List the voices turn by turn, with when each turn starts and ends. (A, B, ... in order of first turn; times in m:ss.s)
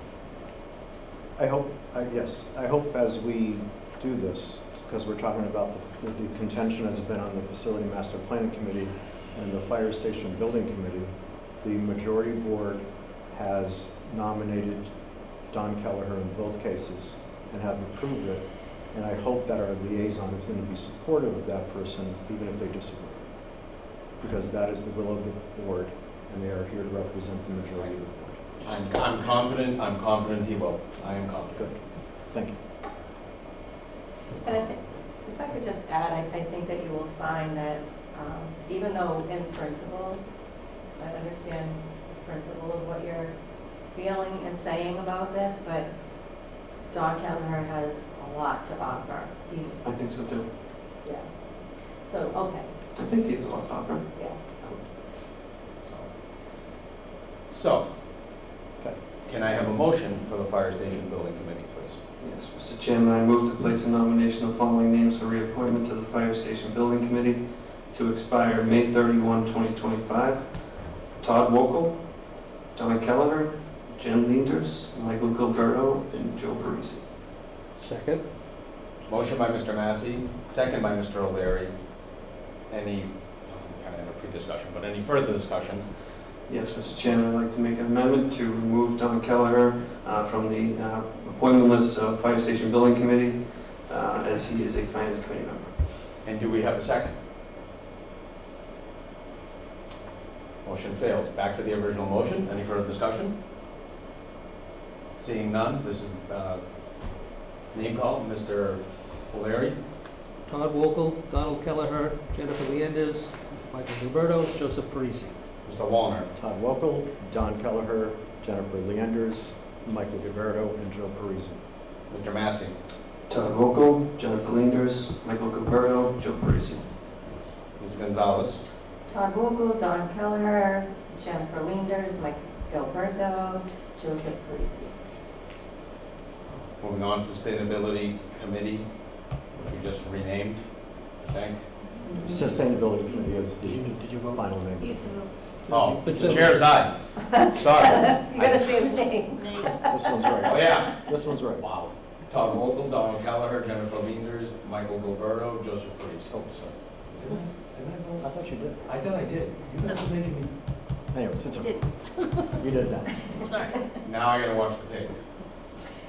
0:01.4-0:14.9 A
0:15.4-0:29.0 A
0:28.6-0:31.7 B
0:31.6-0:32.6 A
0:34.4-0:40.2 C
0:41.0-0:43.3 C
0:43.9-0:45.9 C
0:46.9-0:49.8 C
0:49.7-0:50.5 D
0:51.0-0:51.3 C
0:51.9-0:52.7 C
0:53.0-0:54.9 D
0:54.1-0:54.4 C
0:55.8-0:56.7 B
0:57.5-0:58.0 B
0:59.2-1:02.0 B
1:02.2-1:17.1 D
1:17.8-1:18.2 E
1:19.1-1:21.8 B
1:22.7-1:25.8 B
1:26.5-1:35.8 D
1:36.2-1:37.1 B
1:40.6-1:43.4 B
1:45.2-1:49.8 B
1:50.5-1:55.4 E
1:55.6-1:56.3 B
1:56.4-2:01.6 A
2:02.1-2:02.8 B
2:03.3-2:06.9 D
2:07.8-2:08.6 B
2:09.1-2:14.9 C
2:16.8-2:21.6 B
2:22.0-2:22.5 C
2:22.1-2:25.1 A
2:23.6-2:24.4 E
2:25.7-2:26.8 E
2:25.7-2:28.7 B
2:27.8-2:29.9 C
2:29.6-2:31.7 A
2:30.4-2:40.5 B
2:38.2-2:38.9 A
2:41.1-2:43.5 A
2:44.0-2:45.2 B